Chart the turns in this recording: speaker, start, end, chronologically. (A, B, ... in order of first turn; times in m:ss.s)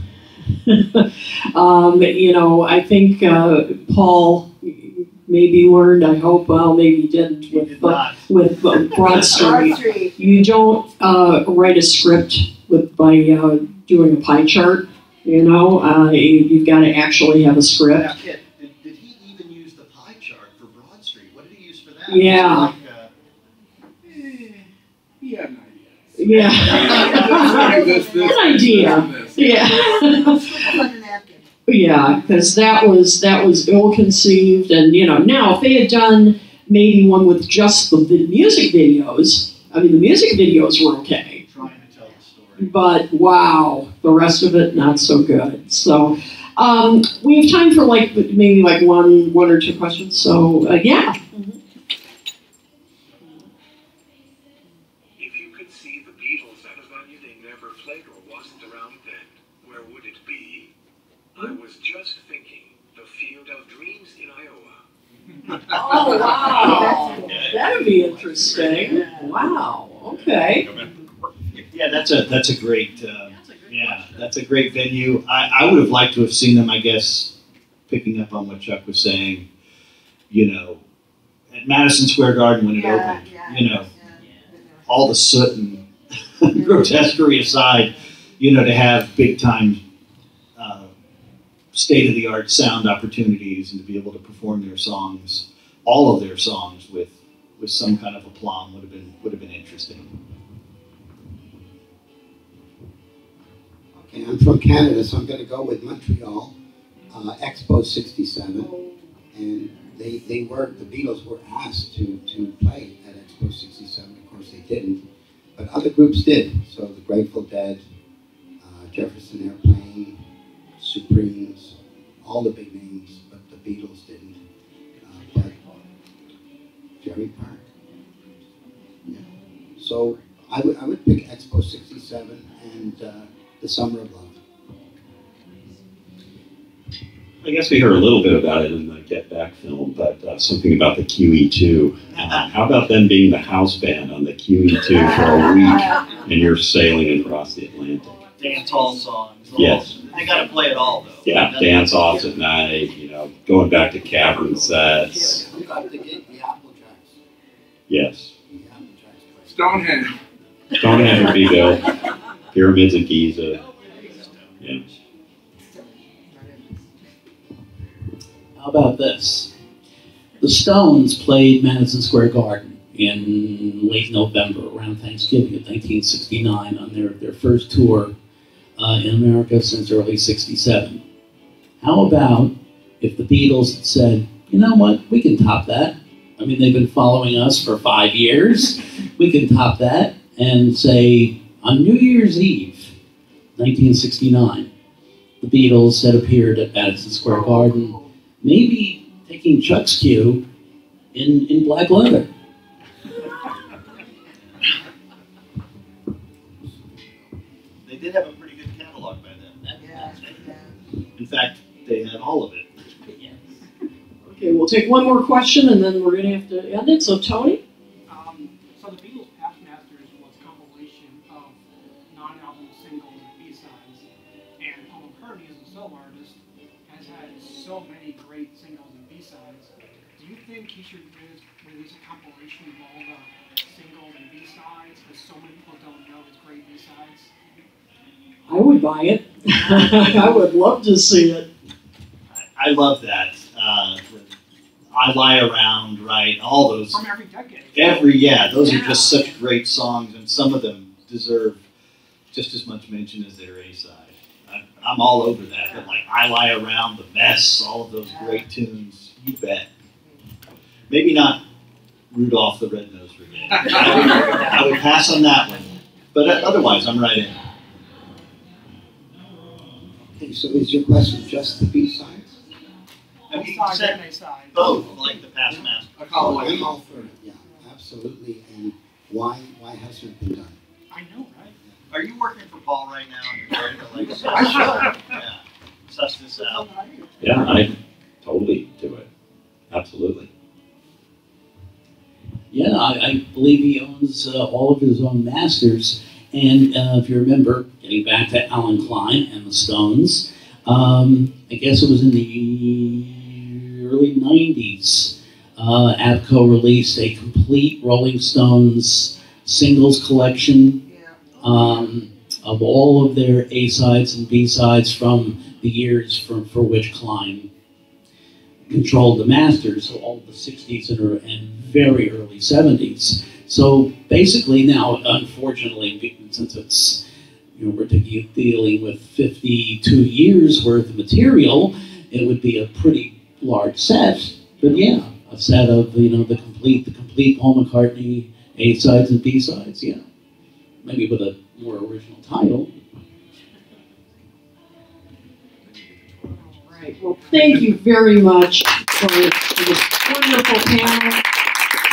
0:00.6-0:18.1 A
0:07.4-0:08.3 B
0:08.9-0:10.2 C
0:17.9-0:23.1 B
0:22.1-0:22.7 A
0:24.0-0:24.6 D
0:25.2-0:30.0 D
0:26.2-0:30.8 A
0:26.5-0:31.4 C
0:31.7-0:41.4 A
0:41.4-0:42.7 B
0:42.6-0:51.5 A
0:55.2-1:00.7 E
1:01.3-1:04.8 E
1:05.6-1:10.7 A
1:05.7-1:08.8 B
1:06.0-1:07.4 C
1:08.6-1:09.4 C
1:11.7-1:17.3 B
1:13.2-1:14.3 F
1:17.9-1:19.5 B
1:20.3-1:20.8 B
1:21.5-1:23.9 B
1:22.7-1:25.1 C
1:24.9-1:25.8 B
1:26.4-1:29.8 B
1:26.5-1:27.1 C
1:30.6-1:30.9 B
1:31.7-1:40.1 B
1:43.9-1:46.5 G
1:47.1-1:48.7 G
1:48.6-1:49.0 C
1:49.3-1:55.0 G
1:55.6-1:57.8 G
1:58.6-2:00.2 G
2:00.8-2:04.4 G
2:05.0-2:05.6 G
2:07.0-2:07.6 G
2:09.0-2:14.4 G
2:17.4-2:28.1 H
2:22.1-2:22.5 B
2:24.9-2:26.1 C
2:28.1-2:29.0 F
2:28.4-2:32.2 B
2:29.6-2:30.5 H
2:31.2-2:35.4 H
2:34.6-2:37.2 G
2:37.9-2:38.3 H
2:38.5-2:40.0 G
2:39.5-2:40.2 D
2:40.7-2:41.9 H
2:42.5-2:43.6 H
2:43.9-2:44.9 B
2:45.7-2:46.9 C
2:48.6-2:49.5 I
2:50.4-2:58.1 I
2:58.8-3:01.0 I
3:01.8-3:12.9 I
3:13.6-3:14.7 I
3:15.4-3:20.4 I
3:17.2-3:18.1 C
3:21.1-3:22.3 I
3:27.8-3:30.4 B
3:29.8-3:30.7 C
3:31.2-3:32.7 B
3:34.2-3:37.6 A
3:38.1-3:44.0 F
3:44.6-3:57.3 F
3:58.5-4:01.5 A
3:59.8-4:00.1 F
4:02.3-4:04.3 B
4:04.9-4:07.0 B
4:06.9-4:09.4 F
4:07.7-4:11.6 B
4:12.3-4:19.7 B
4:15.6-4:16.0 C
4:18.1-4:18.4 C
4:20.9-4:21.4 B
4:22.1-4:27.3 B
4:30.2-4:32.3 G
4:33.3-4:35.1 F
4:33.3-4:36.7 B
4:34.6-4:34.9 G
4:36.0-4:36.7 D
4:36.1-4:40.6 G
4:40.9-4:41.6 F
4:41.9-4:46.7 B
4:44.2-4:44.9 D
4:44.3-4:44.9 F
4:46.4-4:47.1 F
4:47.2-4:49.1 H
4:49.7-4:50.3 H
4:52.5-5:10.8 I
5:10.8-5:11.9 C
5:11.4-5:17.5 I
5:18.7-5:27.0 I
5:27.6-5:40.0 I
5:40.8-5:42.7 I
5:46.2-5:47.6 F
5:46.7-5:51.2 A